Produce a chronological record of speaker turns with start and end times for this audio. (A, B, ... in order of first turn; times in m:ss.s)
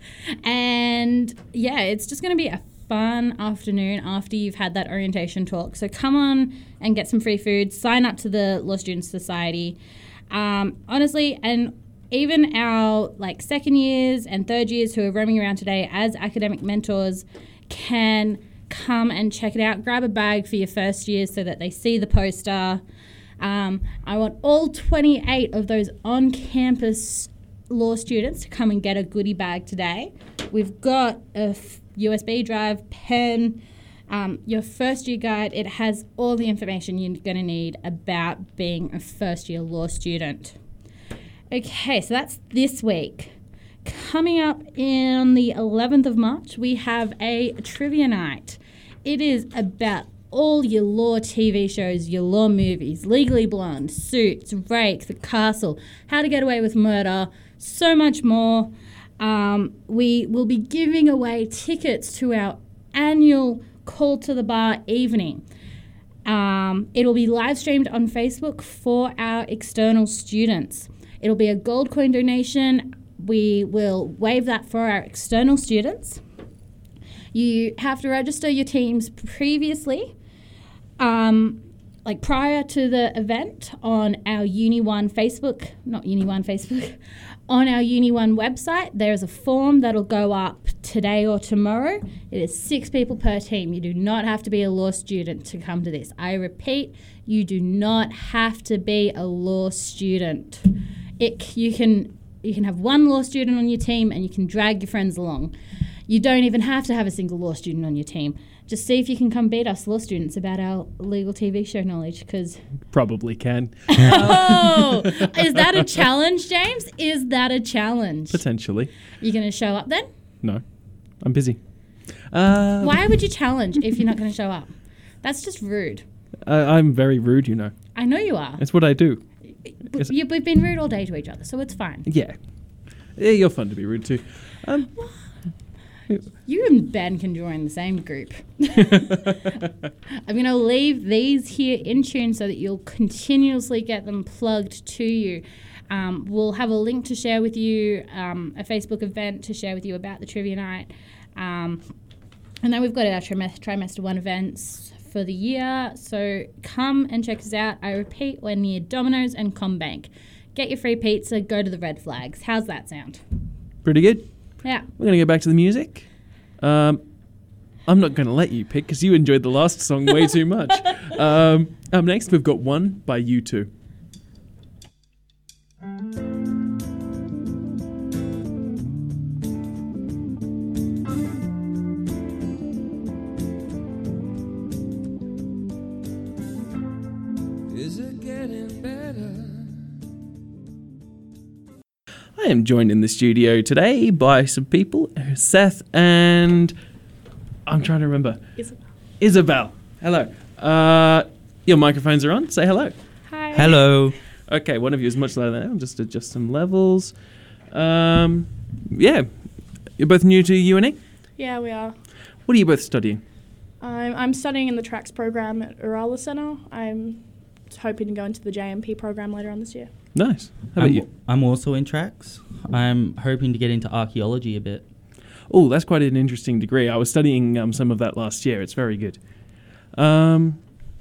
0:00.4-0:09.8 A
0:10.3-0:22.8 A
0:23.4-0:40.6 A
0:41.5-0:43.3 A
0:43.8-1:05.4 A
1:06.2-1:16.2 A
1:17.3-1:20.1 A
1:21.0-1:27.0 A
1:27.5-1:40.6 A
1:41.2-1:45.5 A
1:46.1-1:52.6 A
1:52.9-1:55.9 B
1:53.9-1:58.4 A
1:58.3-1:58.9 B
1:59.2-2:00.0 A
2:01.2-2:01.6 B
2:02.3-2:03.2 B
2:02.8-2:04.7 A
2:05.2-2:06.0 A
2:06.5-2:07.7 B
2:07.9-2:08.6 A
2:08.6-2:09.2 B
2:09.9-2:12.1 A
2:12.0-2:12.4 B
2:13.2-2:14.9 B
2:16.4-2:19.3 A
2:18.8-2:19.7 B
2:20.2-2:31.8 A
2:32.6-2:43.2 A
2:43.8-2:44.3 B
2:44.9-2:46.1 B
2:46.6-2:47.0 B
2:47.8-2:53.7 B
3:12.4-3:16.7 B
3:17.7-3:18.4 B
3:19.2-3:22.9 B
3:23.3-3:23.8 C
3:23.5-3:24.1 D
3:24.5-3:27.1 B
3:27.7-3:29.3 B
3:30.0-3:31.0 B
3:31.4-3:31.9 C
3:32.4-3:33.2 B
3:33.8-3:39.9 C
3:40.1-3:41.0 B
3:40.7-3:44.9 D
3:45.5-3:49.2 B
3:49.9-3:50.6 B